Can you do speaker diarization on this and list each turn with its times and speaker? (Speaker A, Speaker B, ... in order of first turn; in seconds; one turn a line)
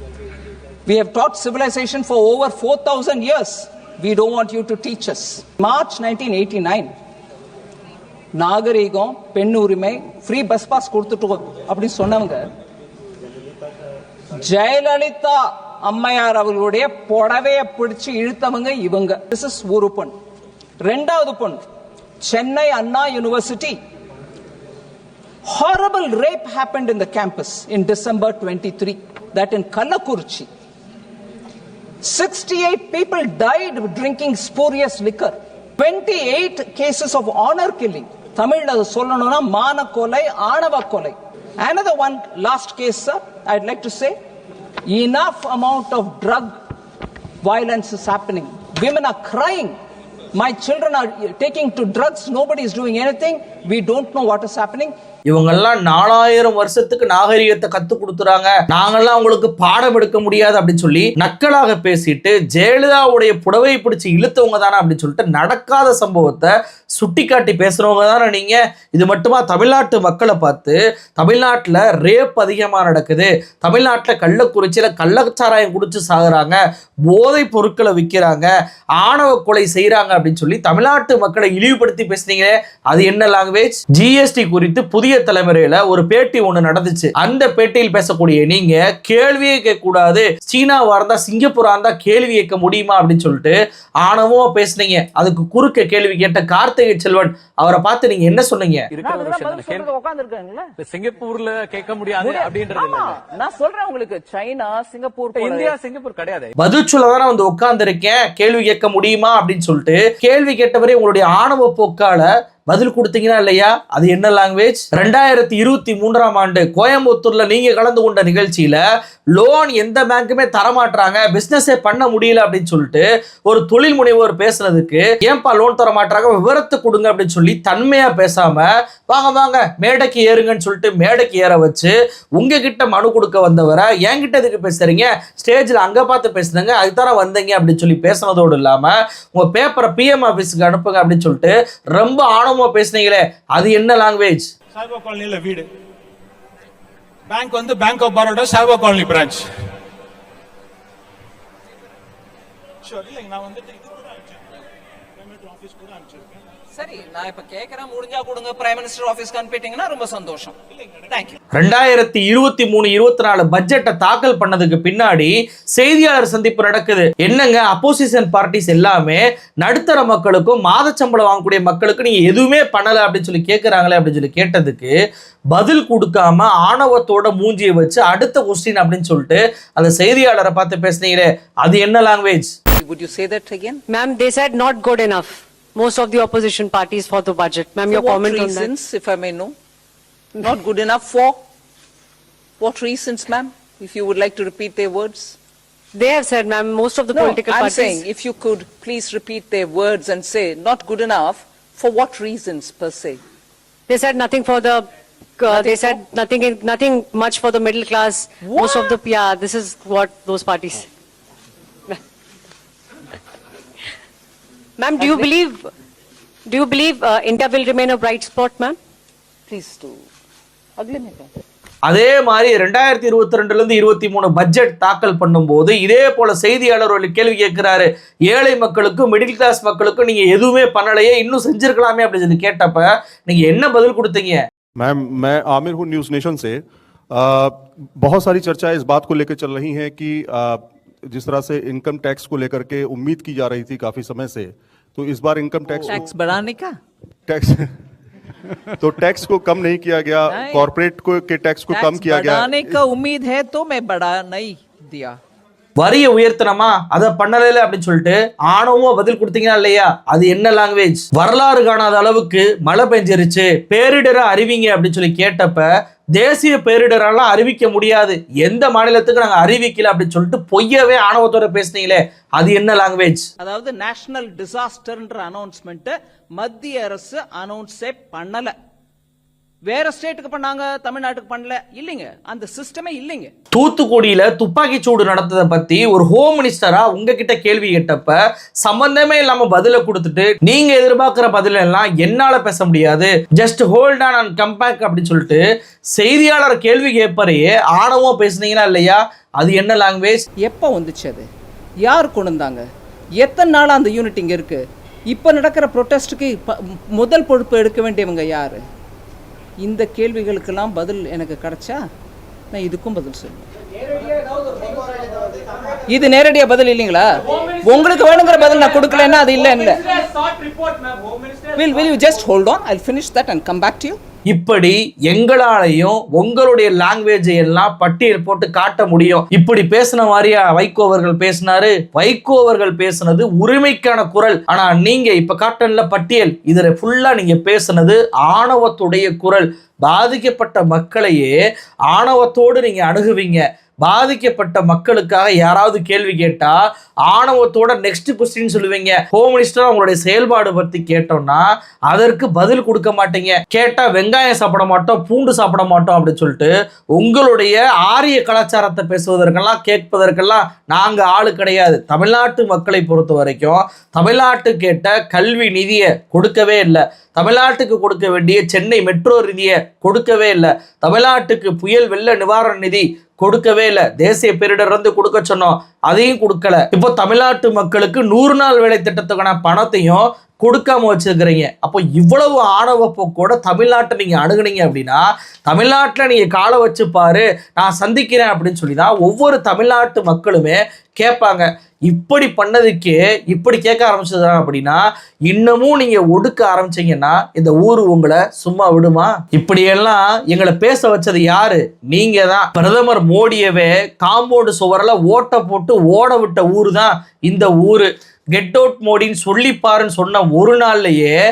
Speaker A: 0.8-6.9
Speaker A: 8.3-12.4
Speaker A: 14.4-20.1
Speaker A: 20.8-21.6
Speaker A: 22.2-23.8
Speaker A: 25.4-30.5
Speaker A: 32.0-44.1
Speaker A: 44.9-46.5
Speaker A: 47.4-49.7
Speaker A: 50.3-54.9
Speaker B: 55.3-76.6
Speaker B: 77.1-98.9
Speaker A: 98.9-100.7
Speaker C: 99.0-99.9
Speaker C: 100.8-103.1
Speaker A: 102.2-105.8
Speaker C: 105.3-106.5
Speaker B: 106.6-118.8
Speaker B: 119.3-144.5
Speaker D: 144.7-145.7
Speaker D: 147.3-149.5
Speaker D: 152.8-154.3
Speaker D: 155.2-156.3
Speaker A: 156.7-161.3
Speaker B: 161.5-174.9
Speaker B: 175.5-182.5
Speaker A: 182.8-183.8
Speaker E: 183.9-188.7
Speaker A: 187.9-189.5
Speaker A: 190.4-191.4
Speaker A: 192.6-195.4
Speaker E: 195.9-198.0
Speaker A: 197.1-203.2
Speaker E: 203.9-204.8
Speaker E: 205.4-210.9
Speaker A: 205.5-206.0
Speaker A: 208.4-209.0
Speaker E: 214.8-215.7
Speaker A: 215.0-215.3
Speaker E: 216.4-218.8
Speaker A: 219.5-220.0
Speaker A: 220.8-221.3
Speaker B: 221.9-234.4
Speaker F: 234.8-246.1
Speaker A: 245.8-246.7
Speaker F: 247.3-247.7
Speaker F: 248.8-252.8
Speaker A: 250.3-250.7
Speaker A: 251.7-255.2
Speaker B: 255.8-273.2
Speaker A: 273.4-278.5
Speaker A: 279.6-283.3
Speaker B: 283.5-295.4
Speaker B: 296.0-300.2
Speaker A: 300.4-301.2
Speaker A: 301.8-302.6
Speaker A: 303.2-308.6
Speaker A: 309.6-311.8
Speaker A: 312.5-313.4
Speaker A: 315.9-320.1
Speaker A: 321.5-324.0
Speaker B: 324.3-341.4
Speaker B: 341.9-346.6
Speaker B: 347.1-411.2